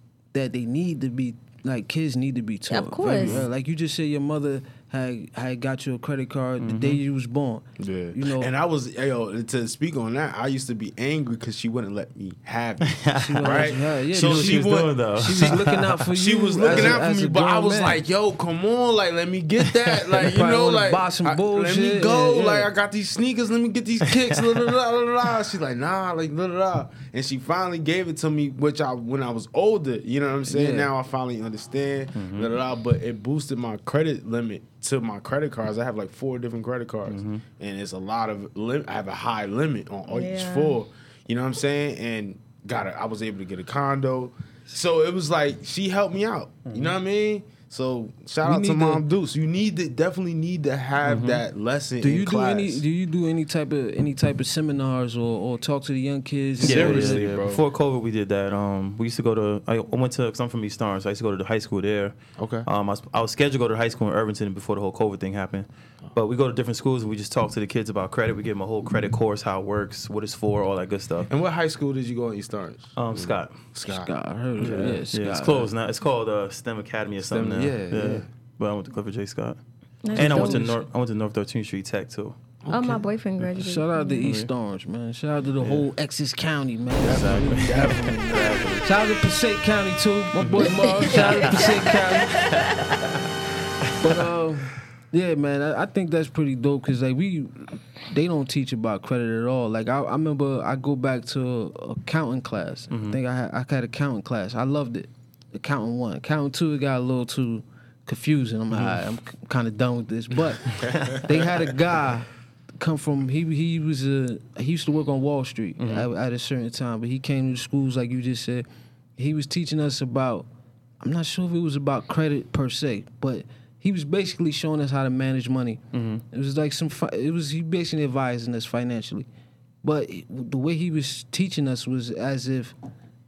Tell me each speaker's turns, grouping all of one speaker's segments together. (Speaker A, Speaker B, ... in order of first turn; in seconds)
Speaker A: 0.3-8.5, 13.2-18.0, 20.2-22.7, 30.5-30.9, 48.4-49.0, 52.0-57.2, 73.8-75.7, 80.1-80.8, 83.4-92.5, 94.0-118.7, 119.2-120.5, 121.0-129.3, 129.8-132.8
Speaker B: 2.7-3.4, 40.1-40.8, 80.0-80.7, 82.7-84.3, 90.6-93.0
Speaker C: 6.6-7.0, 12.8-16.1, 16.6-17.0, 19.7-20.1, 24.3-24.7, 32.1-32.5, 37.1-37.4, 46.7-47.0, 51.0-51.4, 56.6-71.3, 73.0-73.5, 74.6-79.6, 80.1-82.4, 84.2-84.5, 85.6-85.9, 87.0-88.9, 90.3-91.9, 92.6-93.0, 93.8-94.2, 102.9-103.2, 108.7-109.0, 110.8-111.3, 115.8-116.1, 125.9-126.2
Speaker D: 7.8-52.8, 56.6-57.6, 62.4-62.7, 71.3-75.0, 77.3-78.3, 82.6-83.0, 87.0-88.6, 110.9-111.2